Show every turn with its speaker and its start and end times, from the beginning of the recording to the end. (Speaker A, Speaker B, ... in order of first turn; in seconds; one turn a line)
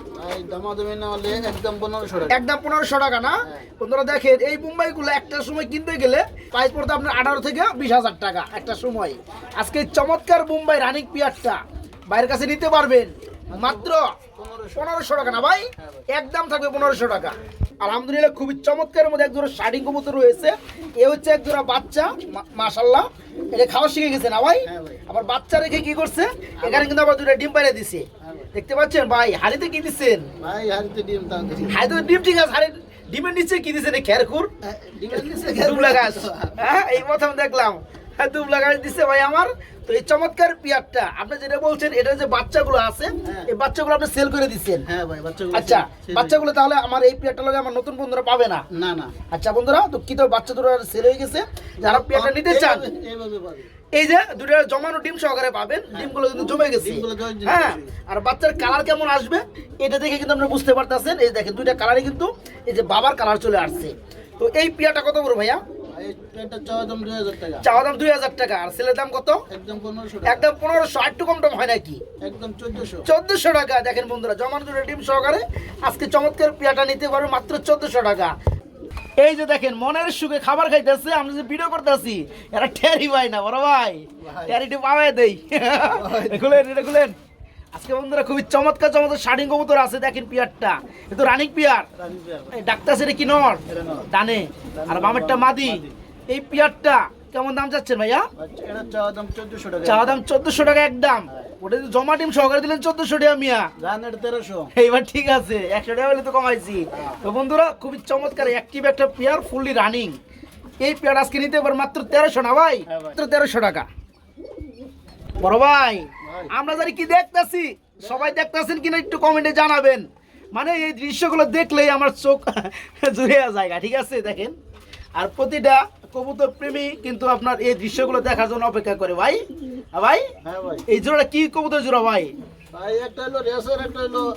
Speaker A: 0.1-2.4
Speaker B: 2.3-11.6
Speaker B: 12.1-14.2
Speaker A: 13.5-15.2
Speaker B: 14.7-30.3
Speaker A: 15.8-16.0
Speaker A: 24.6-25.0
Speaker A: 26.6-26.9
Speaker A: 28.2-28.5
Speaker A: 30.4-31.8
Speaker B: 31.7-34.5
Speaker A: 34.6-36.8
Speaker B: 35.1-44.8
Speaker A: 43.2-43.5
Speaker A: 44.9-46.4
Speaker B: 45.5-48.6
Speaker A: 48.7-49.1
Speaker B: 49.3-52.9
Speaker A: 51.8-53.7
Speaker B: 53.9-65.6
Speaker A: 55.9-57.9
Speaker A: 65.9-67.6
Speaker B: 67.6-69.4
Speaker A: 69.5-70.5
Speaker B: 70.2-72.0
Speaker A: 72.2-73.1
Speaker B: 73.0-78.3
Speaker B: 79.2-87.2
Speaker A: 84.2-84.6
Speaker A: 85.8-86.6
Speaker B: 87.7-91.9
Speaker A: 92.0-92.6
Speaker B: 92.5-98.3
Speaker A: 93.7-94.1
Speaker A: 94.7-95.9
Speaker A: 98.4-100.2
Speaker B: 99.8-103.7
Speaker A: 103.8-104.7
Speaker B: 104.7-110.2
Speaker B: 110.8-113.9
Speaker A: 112.9-113.2
Speaker B: 115.4-124.5
Speaker A: 116.2-116.5
Speaker A: 118.0-118.4
Speaker B: 125.2-129.4
Speaker B: 129.9-130.3
Speaker A: 130.4-130.8
Speaker B: 130.9-132.3
Speaker A: 132.7-134.3